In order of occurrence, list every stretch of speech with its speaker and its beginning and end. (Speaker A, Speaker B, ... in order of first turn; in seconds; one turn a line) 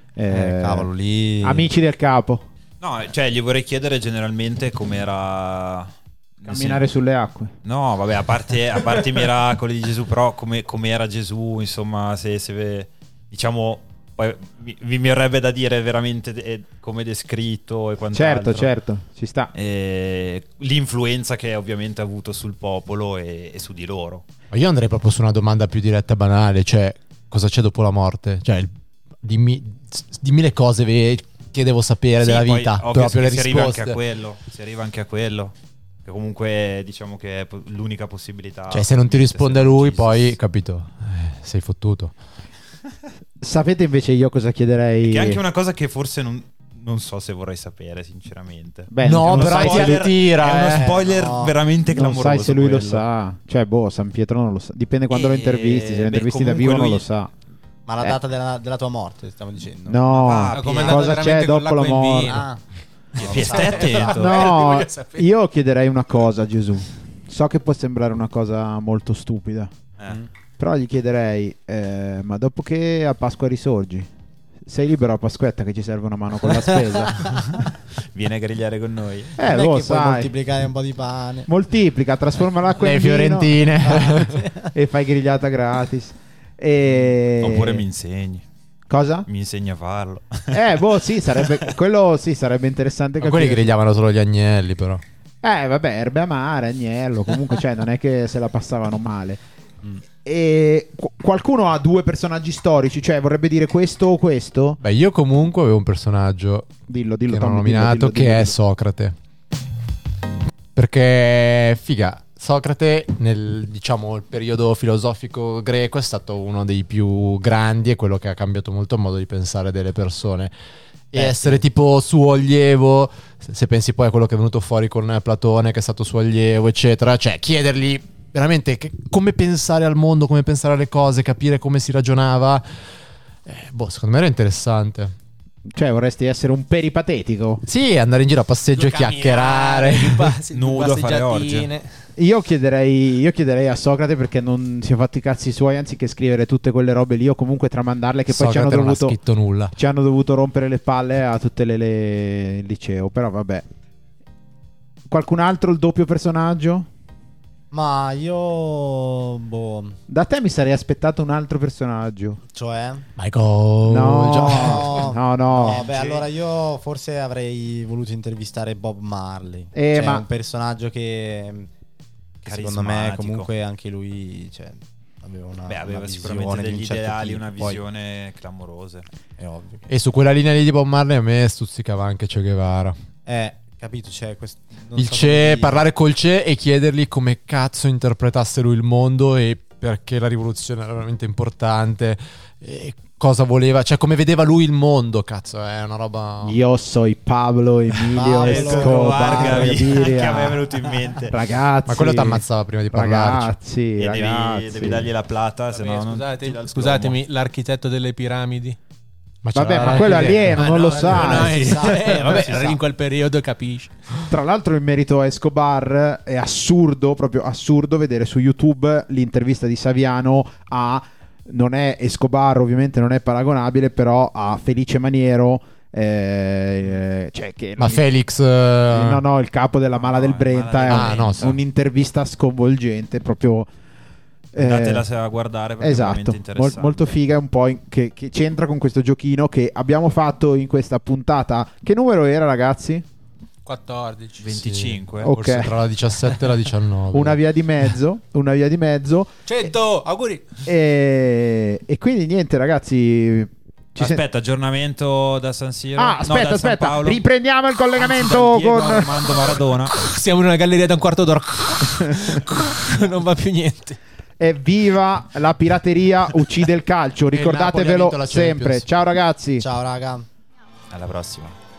Speaker A: 0.2-0.9
Speaker B: 0.3-1.7
Speaker A: 1.4-2.5
Speaker C: 2.8-6.8
Speaker A: 6.5-7.5
Speaker C: 7.6-18.7
Speaker A: 18.1-19.5
Speaker C: 19.5-24.2
Speaker D: 24.5-34.0
Speaker C: 32.2-40.4
Speaker D: 38.7-42.1
Speaker A: 43.4-45.4
Speaker C: 45.0-53.0
Speaker A: 48.9-50.1
Speaker D: 49.0-51.0
Speaker B: 50.7-51.5
Speaker A: 51.9-57.3
Speaker C: 55.1-57.1
Speaker B: 57.9-60.0
Speaker A: 59.9-62.4
Speaker C: 60.1-61.2
Speaker E: 60.5-62.5
Speaker B: 62.2-62.6
Speaker C: 63.2-64.6
Speaker B: 63.2-63.9
Speaker E: 63.2-65.3
Speaker A: 64.0-69.7
Speaker A: 70.6-74.1
Speaker A: 74.7-77.5
Speaker B: 77.1-77.5
Speaker C: 78.1-79.4
Speaker A: 79.4-80.3
Speaker B: 79.4-81.5
Speaker A: 81.5-83.6
Speaker D: 82.8-84.4
Speaker B: 83.8-84.7
Speaker A: 84.7-87.8
Speaker C: 86.9-88.4
Speaker A: 88.9-89.3
Speaker C: 89.3-91.7
Speaker A: 90.5-93.7
Speaker D: 93.2-95.0
Speaker A: 95.4-99.4
Speaker A: 100.2-104.8
Speaker D: 104.8-109.2
Speaker A: 106.9-108.5
Speaker D: 110.8-120.5
Speaker D: 121.1-132.7
Speaker B: 121.2-121.6
Speaker D: 133.5-135.1
Speaker A: 135.7-137.6
Speaker D: 137.7-140.4
Speaker E: 138.7-141.9
Speaker C: 140.5-141.7
Speaker A: 142.2-149.2
Speaker D: 148.3-149.7
Speaker A: 149.8-153.6
Speaker A: 155.1-156.9
Speaker B: 157.7-160.0
Speaker A: 160.1-162.4
Speaker B: 162.5-163.1
Speaker D: 163.2-165.1
Speaker A: 163.9-165.9
Speaker B: 164.5-171.7
Speaker C: 165.6-166.2
Speaker A: 169.7-170.2
Speaker B: 172.4-177.8
Speaker C: 172.5-173.5
Speaker C: 175.7-179.1
Speaker B: 179.4-179.8
Speaker D: 179.9-182.9
Speaker B: 183.3-185.8
Speaker D: 185.0-196.6
Speaker A: 196.4-200.6
Speaker B: 198.1-200.4
Speaker C: 198.4-201.3
Speaker A: 201.3-205.1
Speaker D: 201.9-203.6
Speaker C: 204.0-207.2
Speaker E: 205.7-208.8
Speaker D: 209.4-210.6
Speaker A: 209.5-211.9
Speaker E: 210.4-214.0
Speaker B: 210.7-212.8
Speaker A: 214.3-228.0
Speaker D: 227.8-229.2
Speaker A: 228.9-233.7
Speaker C: 230.0-231.6
Speaker D: 230.9-231.5
Speaker A: 234.5-235.1
Speaker C: 234.6-237.1
Speaker A: 235.8-243.0
Speaker E: 243.7-244.5
Speaker C: 244.4-245.3
Speaker D: 244.5-247.4
Speaker A: 245.2-245.8
Speaker A: 247.1-249.7
Speaker E: 249.5-250.5
Speaker A: 250.7-254.2
Speaker C: 254.0-257.2
Speaker A: 256.0-259.3
Speaker C: 257.9-259.9
Speaker E: 259.9-264.0
Speaker A: 264.4-269.6
Speaker D: 267.3-268.9
Speaker B: 269.6-270.3
Speaker C: 270.9-271.6